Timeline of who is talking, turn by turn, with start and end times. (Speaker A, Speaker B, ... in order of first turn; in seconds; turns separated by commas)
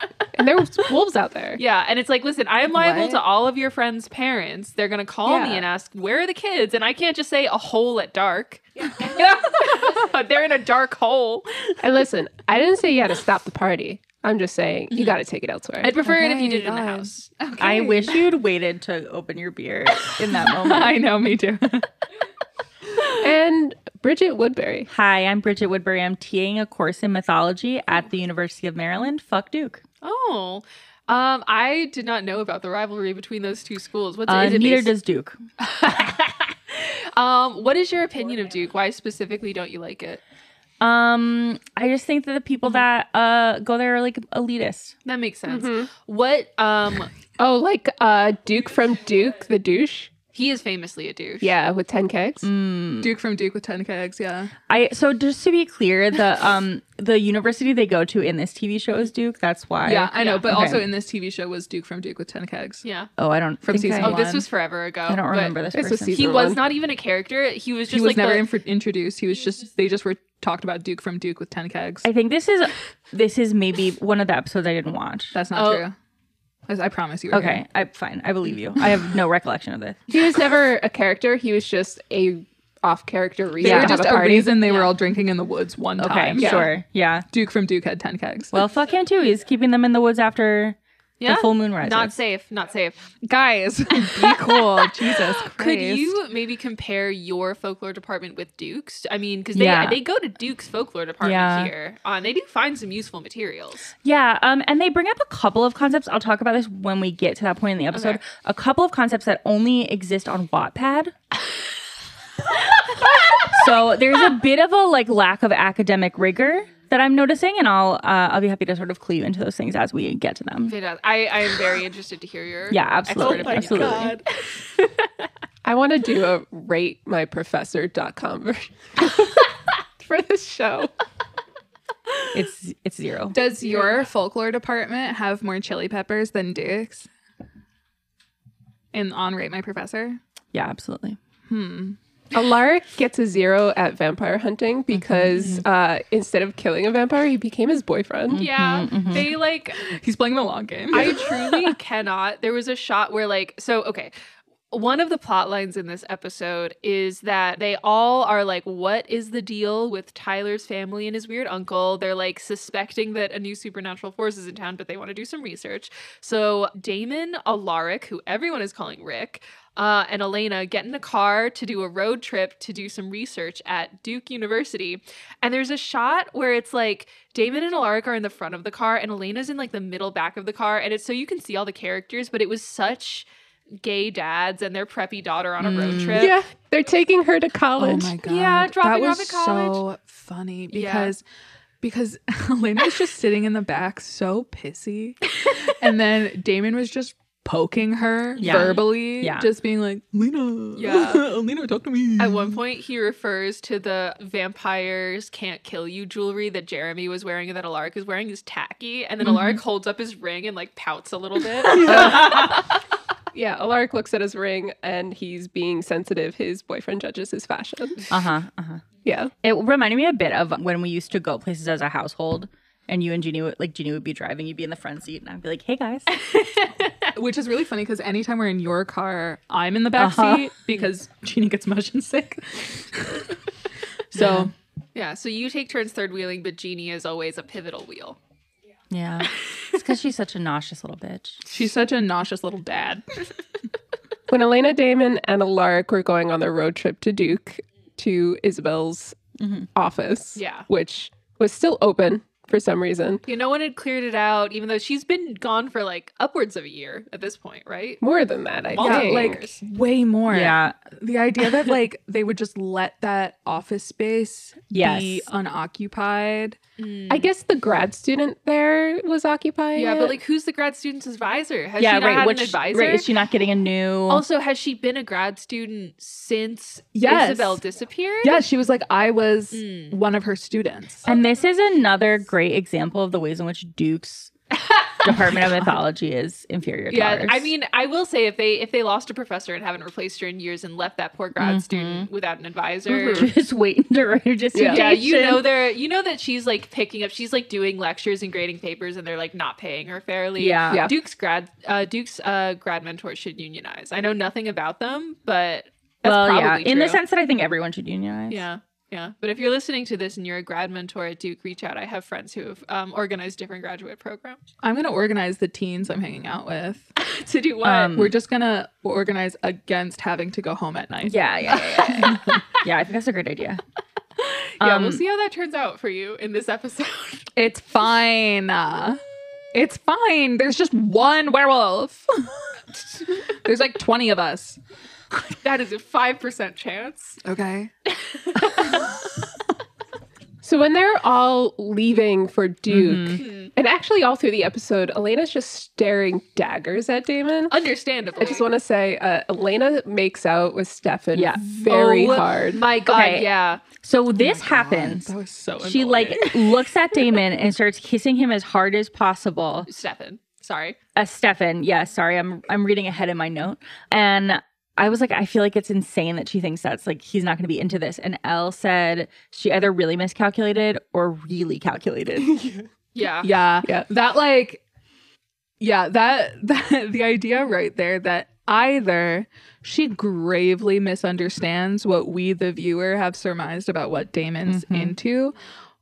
Speaker A: 0.3-1.6, Speaker B: 1.6-11.8, Speaker C: 2.8-3.2, Speaker A: 5.2-5.6, Speaker A: 11.8-15.9, Speaker B: 14.9-15.2, Speaker B: 15.8-17.3, Speaker C: 15.8-18.3, Speaker D: 17.6-21.0, Speaker C: 20.0-21.9, Speaker A: 23.2-24.9, Speaker D: 24.9-29.8, Speaker B: 30.0-34.9, Speaker D: 34.3-35.4, Speaker B: 35.6-40.2, Speaker D: 40.8-44.9, Speaker B: 45.0-47.1, Speaker A: 45.5-45.9, Speaker A: 47.4-50.1, Speaker B: 50.3-51.5, Speaker A: 51.4-52.5, Speaker D: 52.4-53.1, Speaker C: 53.0-54.5, Speaker D: 54.7-60.9, Speaker C: 59.8-62.8, Speaker B: 60.1-60.4, Speaker B: 62.8-63.1, Speaker D: 63.2-64.2, Speaker C: 63.6-64.5, Speaker B: 64.0-65.5, Speaker D: 65.0-66.5, Speaker A: 65.7-66.6, Speaker B: 66.1-68.5, Speaker C: 67.9-72.1, Speaker D: 72.0-75.3, Speaker C: 75.3-75.9, Speaker B: 75.5-75.8, Speaker C: 76.7-77.6, Speaker D: 77.3-80.0, Speaker A: 80.1-84.6, Speaker D: 83.6-84.0, Speaker C: 83.6-86.7, Speaker B: 84.6-84.9, Speaker D: 86.0-87.2, Speaker B: 86.4-86.7, Speaker C: 87.3-88.6, Speaker D: 88.5-92.1, Speaker B: 91.2-93.1, Speaker C: 93.2-96.1, Speaker B: 93.9-103.9, Speaker D: 99.5-100.0, Speaker D: 101.2-101.7, Speaker D: 104.0-111.1, Speaker B: 107.9-108.2, Speaker D: 113.4-120.8, Speaker B: 120.7-124.2, Speaker D: 122.7-124.2, Speaker A: 123.2-124.2, Speaker C: 123.3-124.0, Speaker A: 125.6-130.9, Speaker D: 132.3-133.4, Speaker C: 133.3-137.1, Speaker C: 138.9-140.2, Speaker D: 140.5-141.2, Speaker C: 141.5-142.0, Speaker A: 142.3-148.4, Speaker D: 144.9-145.6, Speaker D: 148.3-149.3, Speaker B: 148.3-149.8, Speaker C: 149.1-151.8, Speaker B: 150.9-154.1, Speaker B: 154.7-183.3, Speaker B: 183.8-186.3, Speaker C: 185.6-186.3, Speaker A: 186.1-188.2, Speaker C: 187.8-191.2, Speaker B: 188.2-189.8, Speaker B: 190.7-191.1, Speaker C: 191.8-202.6, Speaker B: 198.3-198.8, Speaker D: 198.4-199.5, Speaker B: 200.8-201.3, Speaker B: 202.2-212.6, Speaker C: 209.2-209.6, Speaker A: 211.7-212.6, Speaker A: 213.3-218.1, Speaker D: 218.1-218.8, Speaker A: 219.0-219.3, Speaker D: 219.4-226.2, Speaker B: 226.2-227.1, Speaker C: 227.2-233.4, Speaker D: 229.9-230.5, Speaker C: 234.1-234.5, Speaker D: 234.1-234.5, Speaker B: 234.9-238.2, Speaker D: 238.9-241.4, Speaker C: 241.5-243.0, Speaker A: 244.3-249.2, Speaker D: 249.4-249.7, Speaker A: 249.7-253.2, Speaker B: 250.3-250.7, Speaker B: 253.2-258.0, Speaker A: 258.0-259.4, Speaker B: 258.7-259.6, Speaker C: 258.8-266.6, Speaker D: 260.3-260.7, Speaker D: 264.7-265.3, Speaker B: 266.8-267.3, Speaker A: 267.1-270.2, Speaker B: 269.7-273.1, Speaker D: 271.8-274.2, Speaker B: 274.1-278.4, Speaker C: 276.9-277.6, Speaker C: 278.2-281.1, Speaker B: 279.5-280.0, Speaker D: 281.0-284.3, Speaker B: 284.5-285.4, Speaker D: 285.0-287.5, Speaker B: 286.9-293.3, Speaker D: 291.4-292.1, Speaker A: 292.9-293.3, Speaker D: 293.1-295.4, Speaker A: 294.5-294.8, Speaker B: 294.7-307.0, Speaker D: 300.4-300.9, Speaker A: 300.7-301.0, Speaker D: 306.0-308.5, Speaker B: 308.3-314.4, Speaker C: 314.6-316.9, Speaker B: 317.0-317.9, Speaker D: 317.6-318.2, Speaker C: 317.8-322.2, Speaker D: 321.0-323.6, Speaker B: 321.9-322.3, Speaker B: 324.2-327.3, Speaker D: 324.6-325.0, Speaker C: 327.4-329.0, Speaker C: 329.5-332.1, Speaker C: 332.7-334.6, Speaker B: 335.4-337.2, Speaker C: 337.2-337.7, Speaker B: 337.9-339.1, Speaker A: 340.4-347.5, Speaker D: 342.7-343.2, Speaker C: 342.8-343.2, Speaker B: 343.2-343.5, Speaker B: 347.5-348.4, Speaker A: 348.2-352.6, Speaker D: 351.1-352.2, Speaker B: 351.8-353.6, Speaker D: 352.9-359.7, Speaker C: 354.1-357.1, Speaker B: 359.7-360.8, Speaker D: 360.9-372.4, Speaker A: 372.2-372.6, Speaker B: 372.9-373.3, Speaker C: 373.2-374.6, Speaker A: 373.6-373.9, Speaker C: 375.6-385.3, Speaker D: 384.4-384.9